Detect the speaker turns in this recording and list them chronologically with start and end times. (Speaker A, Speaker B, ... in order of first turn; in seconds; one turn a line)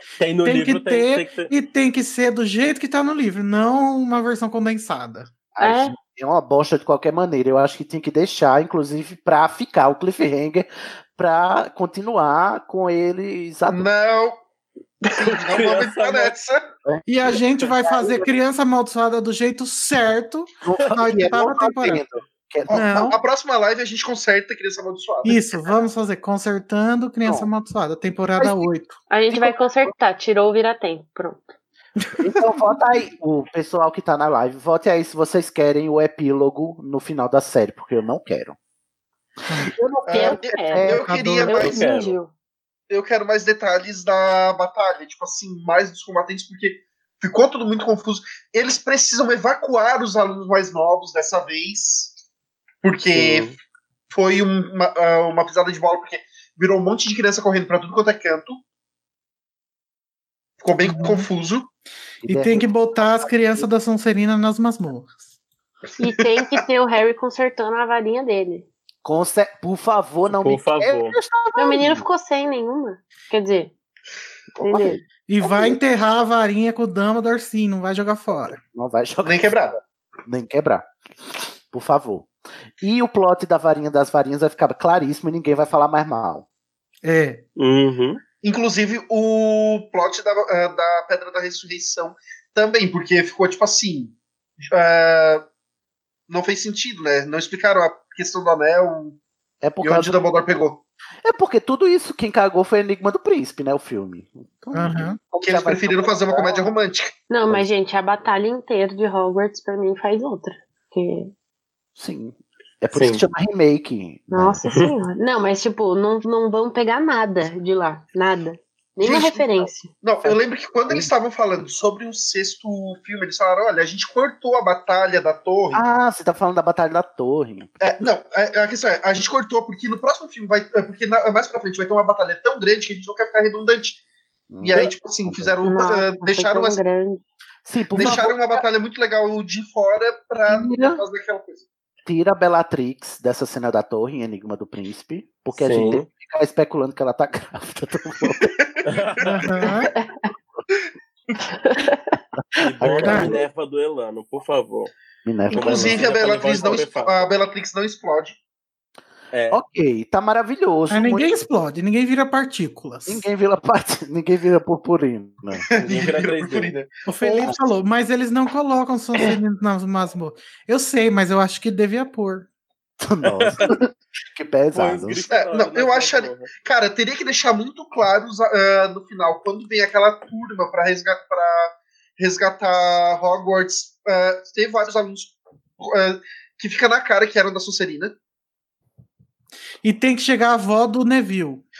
Speaker A: 0.2-1.5
Speaker B: 0.4-5.3
Speaker C: 5.5-13.8
Speaker D: 5.6-5.9
Speaker E: 13.7-14.4
Speaker E: 15.0-16.6
Speaker A: 15.1-16.3
Speaker C: 16.9-18.3
Speaker B: 17.1-22.0
Speaker C: 20.6-22.9
Speaker E: 22.7-25.5
Speaker B: 22.7-23.2
Speaker B: 25.2-29.0
Speaker C: 27.2-27.5
Speaker C: 28.4-28.7
Speaker D: 29.1-31.5
Speaker C: 29.3-29.9
Speaker B: 32.0-32.5
Speaker C: 32.2-38.5
Speaker C: 39.6-41.0
Speaker E: 40.0-41.8
Speaker D: 40.1-42.3
Speaker B: 41.0-41.7
Speaker A: 41.7-42.1
Speaker E: 42.9-52.1
Speaker E: 52.8-53.5
Speaker A: 53.1-53.5
Speaker E: 54.1-58.6
Speaker E: 60.6-61.7
Speaker B: 60.8-61.3
Speaker C: 62.2-63.7
Speaker B: 62.3-65.2
Speaker D: 66.0-68.7
Speaker C: 69.0-72.0
Speaker A: 70.3-71.2
Speaker D: 71.5-73.7
Speaker D: 74.6-75.0
Speaker C: 74.7-75.8
Speaker B: 75.3-78.6
Speaker C: 78.7-79.6
Speaker E: 79.2-79.8
Speaker C: 80.2-80.8
Speaker C: 81.7-82.3
Speaker C: 82.8-86.5
Speaker B: 87.0-87.4
Speaker A: 87.6-88.2
Speaker E: 88.4-94.1
Speaker E: 94.6-95.4
Speaker E: 96.3-99.2
Speaker C: 99.6-100.2
Speaker E: 99.8-100.8
Speaker C: 101.2-106.6
Speaker B: 104.7-105.2
Speaker E: 105.4-107.2
Speaker D: 107.3-111.3
Speaker C: 112.0-114.6
Speaker A: 112.9-113.2
Speaker D: 114.3-119.9
Speaker E: 119.0-125.8
Speaker C: 120.2-121.1
Speaker C: 125.7-127.7
Speaker E: 127.8-134.0
Speaker C: 134.5-135.6
Speaker E: 134.6-136.8
Speaker D: 135.6-137.2
Speaker C: 137.6-138.6
Speaker E: 137.9-141.7
Speaker C: 140.5-141.0
Speaker C: 142.1-148.5
Speaker A: 145.5-146.1
Speaker E: 148.4-149.3
Speaker A: 148.8-149.3
Speaker B: 149.2-149.9
Speaker D: 149.9-150.3
Speaker D: 151.5-152.1
Speaker A: 152.6-154.9
Speaker C: 152.8-153.4
Speaker B: 153.0-153.3
Speaker C: 155.2-156.1
Speaker E: 155.5-158.4
Speaker A: 155.5-157.3
Speaker A: 159.3-159.6
Speaker C: 159.5-161.4
Speaker B: 160.9-163.2
Speaker C: 163.1-165.7
Speaker E: 165.7-167.5
Speaker A: 165.8-166.7
Speaker B: 167.1-172.5
Speaker C: 173.0-175.2
Speaker A: 173.2-173.6
Speaker A: 174.7-176.5
Speaker E: 175.3-188.1
Speaker B: 189.8-191.6